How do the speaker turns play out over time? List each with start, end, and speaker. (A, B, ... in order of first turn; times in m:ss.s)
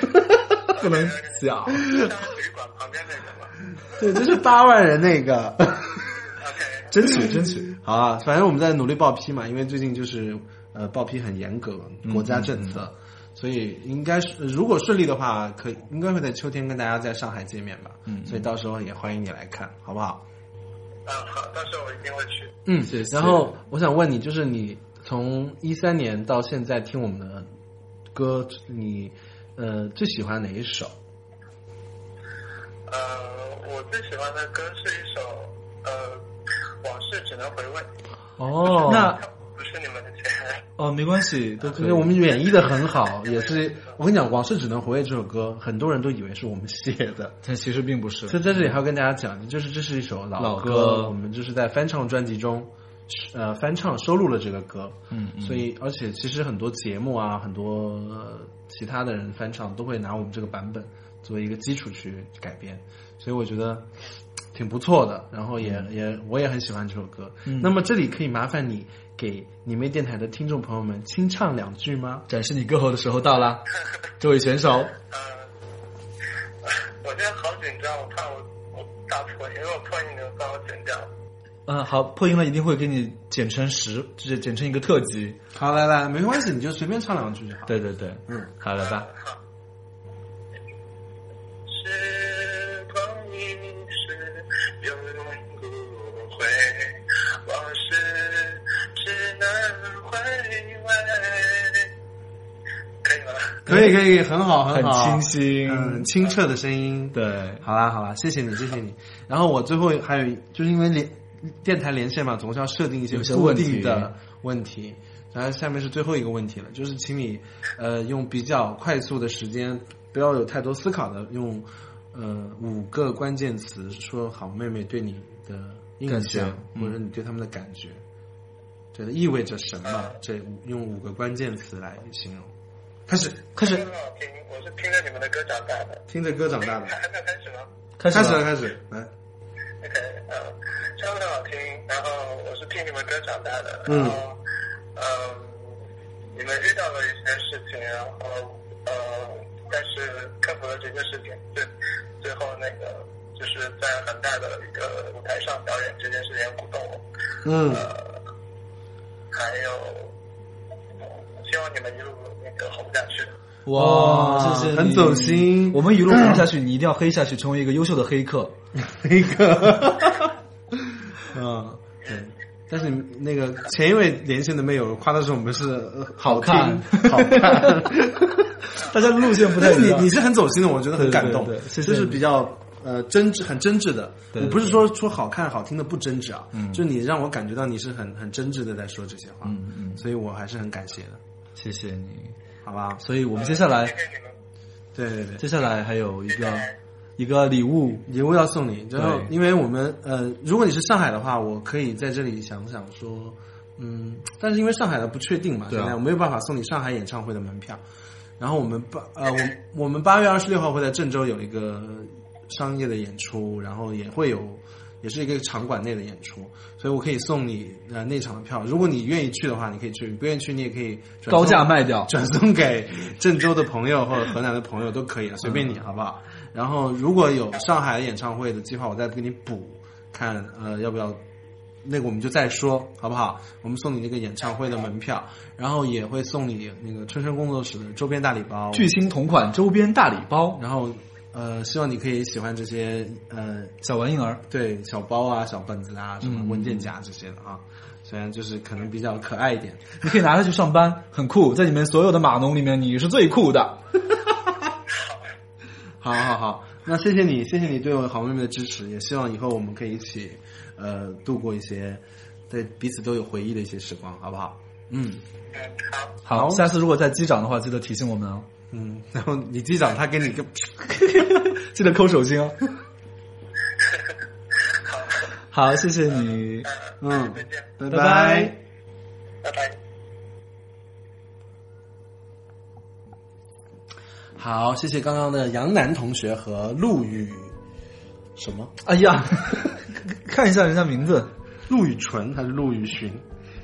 0:00.7-0:02.0 A
0:00.7-0:03.6 B
0:04.0-0:06.3 C
0:06.4-0:06.9 B
0:06.9-0:07.7 A
0:07.1-0:20.2 C
0:12.0-0:12.8 A
0:18.1-0:18.4 A
0:21.0-0:22.5 B
0:22.6-0:27.5 C
0:22.8-0:23.5 A
0:28.1-0:30.9 C
0:32.8-0:36.2 B
0:36.8-0:37.9 B
0:38.4-0:39.2 C
0:38.7-0:40.6 B
0:38.8-0:39.2 A
0:40.8-0:42.1 A
0:41.7-0:47.4 C
0:42.4-0:43.9 B
0:47.4-0:48.7 A
0:48.3-1:03.8 C
0:50.4-0:51.1 A
0:55.1-0:55.6 A
1:04.5-1:12.2 C
1:07.4-1:07.7 A
1:12.3-1:13.6 A
1:14.2-1:14.9 A
1:15.0-1:15.5 B
1:16.6-1:21.1 B
1:21.6-1:25.4 A
1:25.5-1:28.5 C
1:27.7-1:29.1 A
1:28.8-1:29.4 B
1:31.7-1:41.9 B
1:43.0-1:43.6 B
1:43.6-2:08.0 C
1:43.7-1:44.0 A
1:44.7-1:46.1 A
1:47.1-1:47.6 A
1:53.1-1:54.1 A
2:06.1-2:06.9 A
2:08.9-2:12.5 C
2:09.9-2:10.1 B
2:13.1-2:13.6 C
2:13.6-2:13.9 A
2:13.6-2:16.0 B
2:16.1-2:17.0 C
2:16.6-2:17.7 B
2:18.0-2:18.5 A
2:18.1-2:19.1 C
2:19.8-2:24.4 B
2:23.8-2:24.2 C
2:24.9-2:25.8 B
2:26.3-2:37.0 B
2:37.4-2:37.9 C
2:37.6-2:38.2 B
2:39.3-2:40.1 B
2:41.0-2:43.3 B
2:43.6-2:48.5 A
2:43.7-2:46.4 C
2:48.8-2:50.3 C
2:50.9-2:58.5 C
2:56.2-2:57.8 A
2:58.7-3:00.1 A
2:59.5-3:11.2 C
3:00.9-3:02.2 A
3:04.3-3:04.8 A
3:06.5-3:06.8 A
3:09.4-3:10.0 A
3:11.6-3:12.4 A
3:12.6-3:13.0 C
3:13.0-3:14.0 A
3:13.3-3:14.3 B
3:14.9-3:15.4 C
3:15.4-3:18.0 A
3:16.3-3:16.7 B
3:18.1-3:27.8 C
3:19.0-3:19.3 A
3:25.7-3:26.0 A
3:28.4-3:51.2 C
3:41.3-3:42.1 A
3:51.8-3:58.9 C
3:58.7-4:00.6 A
4:00.5-4:03.7 C
4:03.8-4:04.4 A
4:04.5-4:10.0 C
4:06.2-4:06.9 A
4:10.0-4:13.8 A
4:14.9-4:15.2 B
4:16.0-4:25.2 C
4:25.5-4:26.2 B
4:26.2-4:28.5 A
4:26.3-4:26.7 C
4:28.7-4:31.0 C
4:30.9-4:32.6 A
4:33.8-4:35.3 B
4:35.5-4:36.7 A
4:36.6-4:37.7 B
4:37.0-4:38.6 C
4:37.9-4:38.5 A
4:39.4-4:39.8 B
4:44.4-4:47.6 C
4:48.4-4:48.7 C
4:48.8-4:51.3 A
4:51.7-4:53.2 C